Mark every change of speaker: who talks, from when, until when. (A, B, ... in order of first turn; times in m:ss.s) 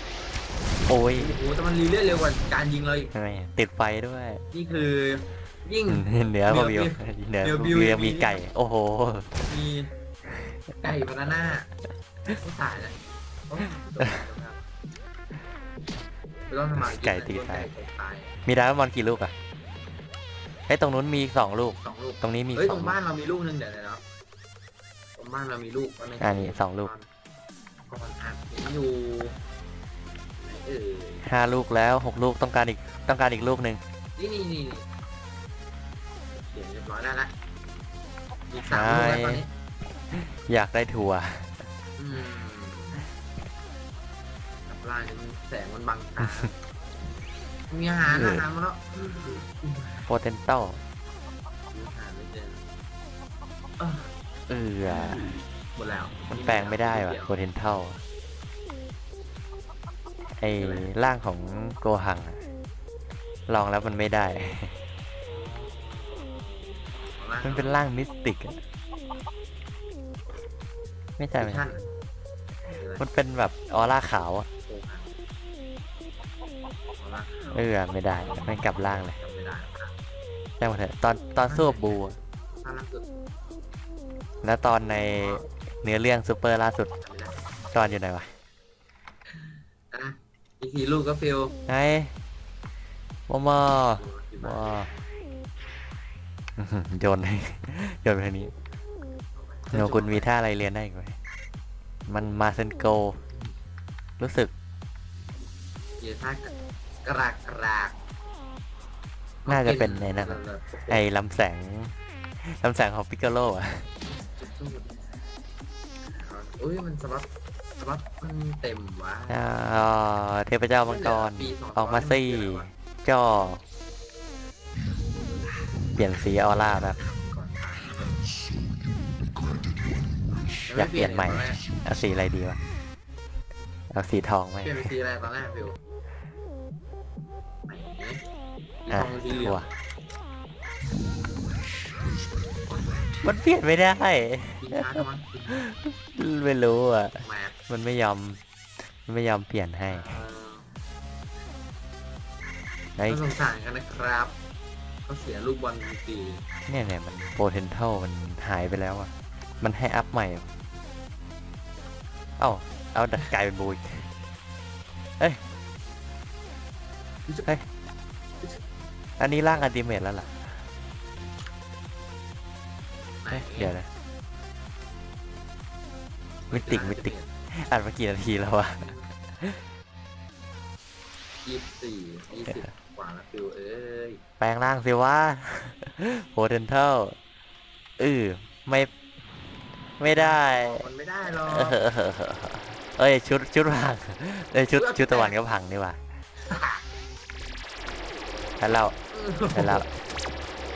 0:00.9-0:01.3 A
0:01.2-0:03.1 B
0:03.1-0:04.4 A
0:04.5-0:08.4 B
0:05.9-0:09.4 A
0:09.4-0:09.9 B
0:10.8-0:11.7 B
0:12.3-0:13.0 B
0:13.5-0:14.6 B
0:14.0-0:14.2 A
0:16.5-0:18.4 B
0:16.8-0:17.7 A
0:18.5-0:19.3 A
0:20.7-0:23.0 A
0:21.8-0:24.0 B
0:25.2-0:27.1 B
0:26.2-0:26.9 A
0:27.9-0:29.4 B
0:30.4-0:31.3 B
0:31.2-0:33.8 A
0:34.2-0:34.9 B
0:36.4-0:37.3 B
0:38.5-0:39.5 B
0:38.7-0:39.4 A
0:40.1-0:41.6 A
0:42.0-0:43.0 B
0:44.7-0:46.5 B
0:46.2-0:46.5 A
0:47.7-0:50.1 B
0:48.1-0:48.5 A
0:50.1-0:50.8 A
0:51.7-0:52.6 B
0:53.8-0:54.1 B
0:54.5-0:55.3 A
0:54.9-0:57.4 B
0:56.3-0:58.0 A
1:00.4-1:02.4 A
1:00.6-1:00.9 B
1:03.5-1:04.8 A
1:05.3-1:07.8 B
1:07.4-1:08.6 A
1:11.2-1:11.7 A
1:11.4-1:11.9 B
1:12.7-1:13.0 B
1:13.0-1:14.5 A
1:14.7-1:15.1 B
1:17.0-1:18.6 B
1:17.5-1:19.2 A
1:19.2-1:20.0 B
1:20.6-1:22.2 A
1:21.5-1:22.1 B
1:22.6-1:23.1 B
1:24.4-1:26.9 A
1:25.2-1:25.4 B
1:27.0-1:27.4 B
1:27.7-1:28.3 A
1:29.3-1:31.5 B
1:31.7-1:32.1 A
1:33.3-1:34.9 A
1:34.0-1:35.1 B
1:36.6-1:38.5 A
1:39.4-1:40.3 B
1:39.7-1:41.2 A
1:42.1-1:43.2 A
1:44.2-1:44.5 A
1:46.0-1:48.0 B
1:49.4-1:51.0 B
1:49.5-1:53.9 A
1:54.1-1:55.1 B
1:56.1-1:57.3 B
1:57.8-1:59.4 B
1:59.3-2:03.6 A
2:00.8-2:02.7 B
2:06.0-2:07.0 A
2:06.7-2:08.1 B
2:10.7-2:11.6 B
2:10.8-2:12.6 A
2:13.9-2:14.9 A
2:14.6-2:15.8 B
2:17.7-2:18.2 B
2:18.8-2:19.6 B
2:18.9-2:19.7 A
2:23.2-2:28.4 A
2:24.6-2:25.6 B
2:27.2-2:27.6 B
2:29.0-2:30.2 A
2:29.9-2:30.7 B
2:33.0-2:33.3 A
2:33.1-2:34.4 B
2:35.1-2:36.4 B
2:36.7-2:40.5 A
2:42.4-2:44.1 A
2:49.2-2:50.6 A
2:53.2-2:53.7 B
2:53.3-2:53.9 A
2:56.5-2:57.3 B
2:56.5-2:59.6 A
2:58.8-2:59.1 B
3:01.4-3:04.2 B
3:04.4-3:07.2 A
3:08.0-3:08.9 A
3:10.0-3:10.8 A
3:10.1-3:11.8 B
3:11.5-3:16.0 A
3:14.8-3:15.4 B
3:16.4-3:16.8 B
3:18.6-3:19.0 A
3:19.1-3:19.9 B
3:19.5-3:19.9 A